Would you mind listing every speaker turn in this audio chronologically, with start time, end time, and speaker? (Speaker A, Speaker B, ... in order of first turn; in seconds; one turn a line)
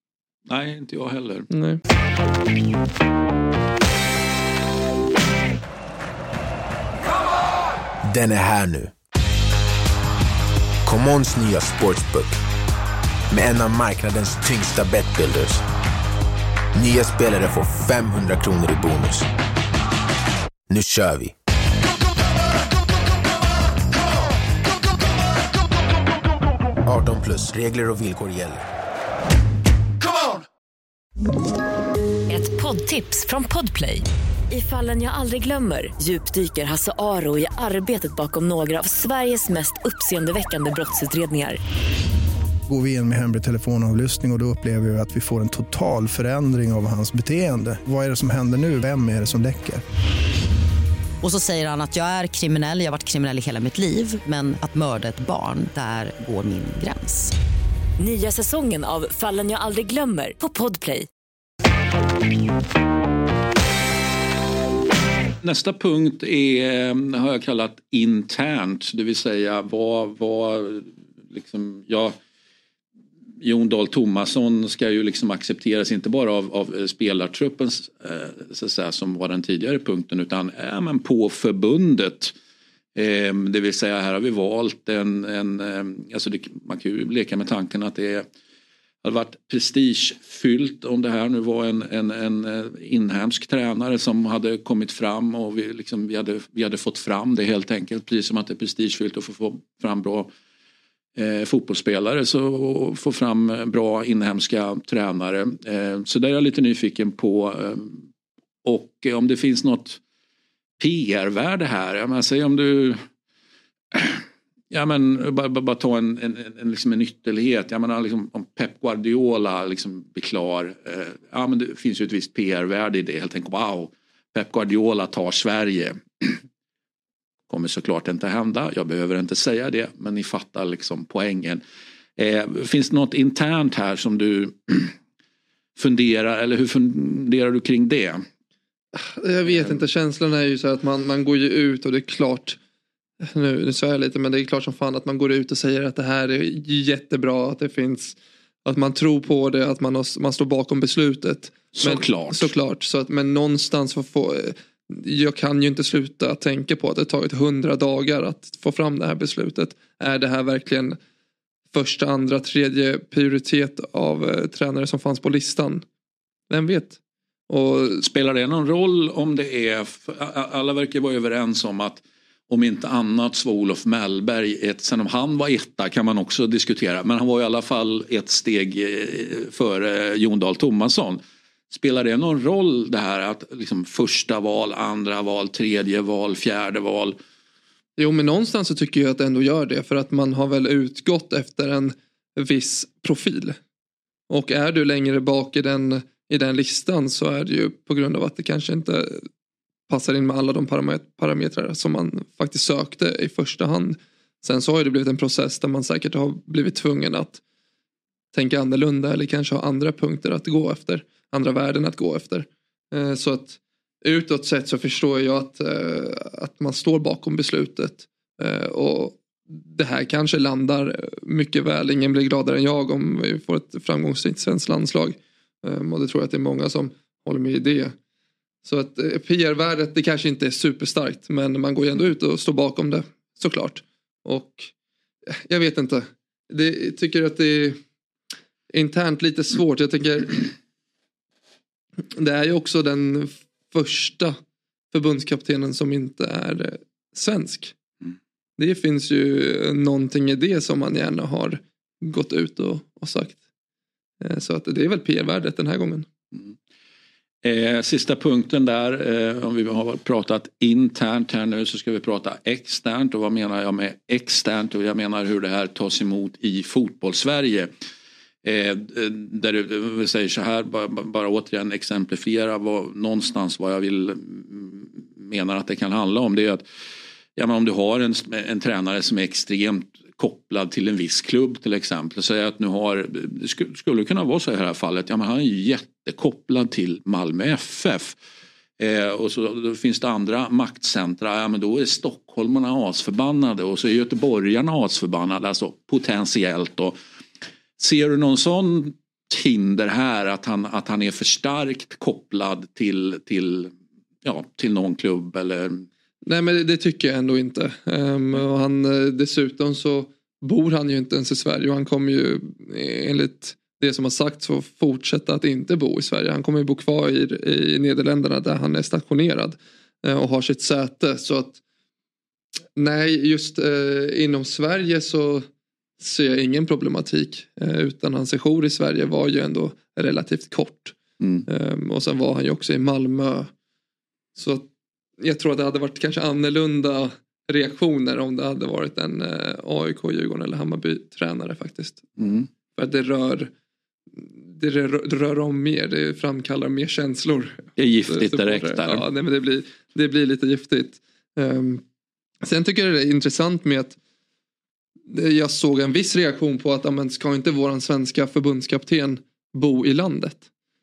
Speaker A: 0.5-1.5
Speaker B: 1.5-1.8
Speaker C: 8.1-8.9
Speaker C: 10.8-12.4
Speaker C: 13.3-15.6
Speaker C: 16.7-19.3
Speaker C: 20.7-21.3
Speaker C: 26.8-28.6
Speaker D: 32.3-41.6
Speaker E: 42.7-49.8
Speaker F: 51.2-57.4
Speaker D: 58.0-61.1
Speaker A: 65.4-72.2
Speaker A: 73.4-82.3
Speaker A: 83.0-88.2
Speaker A: 89.0-100.3
Speaker A: 101.2-108.0
Speaker A: 108.6-110.0
Speaker A: 110.8-113.0
Speaker A: 113.9-126.4
Speaker A: 127.5-131.6
Speaker A: 132.2-134.9
Speaker A: 135.8-138.3
Speaker B: 139.0-142.6
Speaker B: 143.2-161.0
Speaker A: 151.8-152.5
Speaker B: 161.7-165.8
Speaker B: 166.5-167.0
Speaker B: 167.5-168.0
Speaker A: 168.0-187.2
Speaker B: 188.0-193.6
Speaker B: 194.3-199.3
Speaker B: 199.9-207.4
Speaker B: 208.3-227.9
Speaker B: 228.7-234.7
Speaker B: 235.3-237.8
Speaker B: 238.7-240.5
Speaker B: 242.2-244.4
Speaker B: 244.9-247.8
Speaker B: 248.6-253.4
Speaker B: 254.2-256.1
Speaker A: 257.4-267.7
Speaker A: 268.4-276.6
Speaker A: 277.4-288.2
Speaker A: 288.8-297.0
Speaker A: 297.8-303.7
Speaker A: 304.2-305.9
Speaker B: 306.2-321.6
Speaker B: 322.8-325.5
Speaker B: 326.0-331.0
Speaker A: 331.2-331.5
Speaker B: 331.5-333.5
Speaker B: 334.4-334.7
Speaker B: 335.2-342.0
Speaker A: 342.2-342.5
Speaker B: 342.8-343.5
Speaker B: 344.2-351.8
Speaker A: 347.8-349.0
Speaker B: 352.4-354.0
Speaker B: 355.1-360.4